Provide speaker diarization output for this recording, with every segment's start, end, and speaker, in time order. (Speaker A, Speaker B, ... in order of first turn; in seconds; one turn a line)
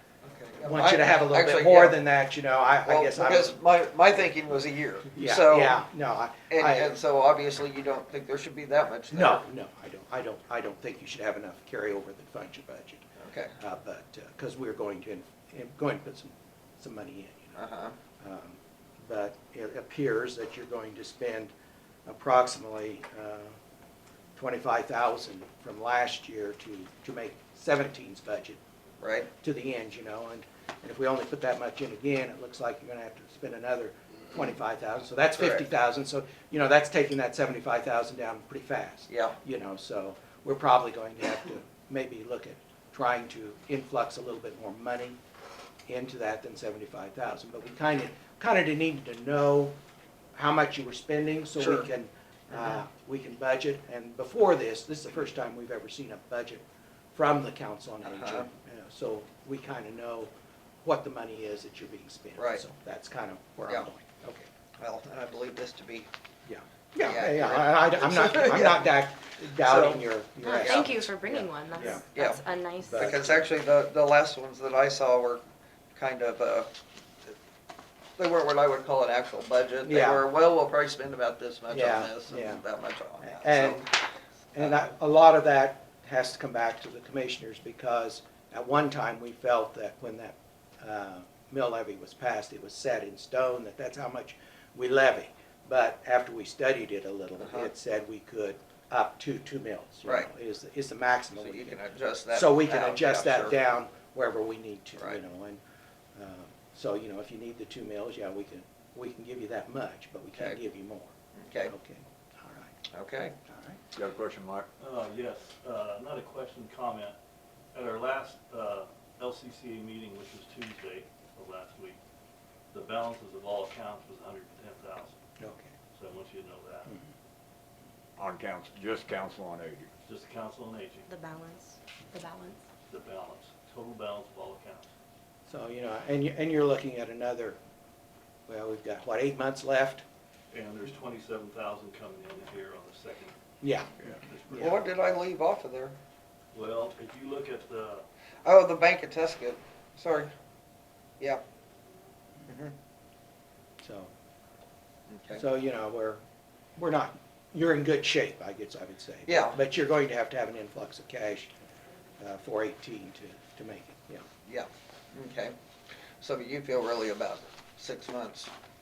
Speaker A: 0.2-2.0
Speaker B: 0.6-3.6
Speaker A: 2.8-5.8
Speaker B: 5.1-6.9
Speaker A: 6.5-9.4
Speaker B: 9.1-13.1
Speaker A: 13.2-13.5
Speaker B: 13.6-17.6
Speaker A: 17.5-18.0
Speaker B: 18.2-21.5
Speaker B: 22.1-23.6
Speaker B: 24.3-28.6
Speaker A: 29.0-29.3
Speaker B: 29.3-45.2
Speaker A: 35.4-35.6
Speaker A: 39.1-39.4
Speaker B: 45.9-49.8
Speaker B: 50.3-60.3
Speaker A: 51.6-51.9
Speaker A: 58.0-58.5
Speaker B: 60.8-64.5
Speaker A: 62.4-62.6
Speaker A: 64.8-66.1
Speaker B: 66.5-72.1
Speaker A: 67.0-68.9
Speaker A: 69.6-70.9
Speaker C: 70.4-73.1
Speaker A: 72.1-75.4
Speaker B: 72.8-73.5
Speaker A: 75.9-76.7
Speaker A: 78.2-83.8
Speaker B: 79.8-80.2
Speaker B: 81.7-82.6
Speaker B: 83.2-84.0
Speaker B: 84.5-101.8
Speaker A: 97.4-97.7
Speaker A: 100.0-100.3
Speaker A: 101.3-103.6
Speaker B: 102.3-105.6
Speaker B: 106.2-112.7
Speaker A: 110.3-110.6
Speaker A: 111.3-111.7
Speaker A: 112.9-113.3
Speaker B: 113.5-113.8
Speaker D: 113.9-114.7
Speaker E: 114.8-117.2
Speaker E: 117.7-122.0
Speaker E: 122.7-125.1
Speaker B: 125.4-125.7
Speaker E: 125.9-126.9
Speaker D: 128.2-129.9
Speaker E: 130.1-131.1
Speaker C: 131.1-132.6
Speaker E: 132.9-134.9
Speaker B: 135.5-137.6
Speaker B: 138.5-140.0
Speaker E: 140.5-143.4
Speaker B: 143.6-144.9
Speaker E: 144.0-144.9
Speaker A: 144.5-145.9
Speaker E: 146.5-148.0
Speaker A: 148.4-150.3
Speaker A: 152.4-152.7
Speaker B: 153.8-154.1
Speaker A: 155.1-155.4
Speaker B: 155.3-156.2
Speaker B: 156.8-161.5
Speaker A: 159.3-159.6
Speaker B: 162.2-164.2
Speaker A: 164.4-165.5
Speaker A: 166.2-168.5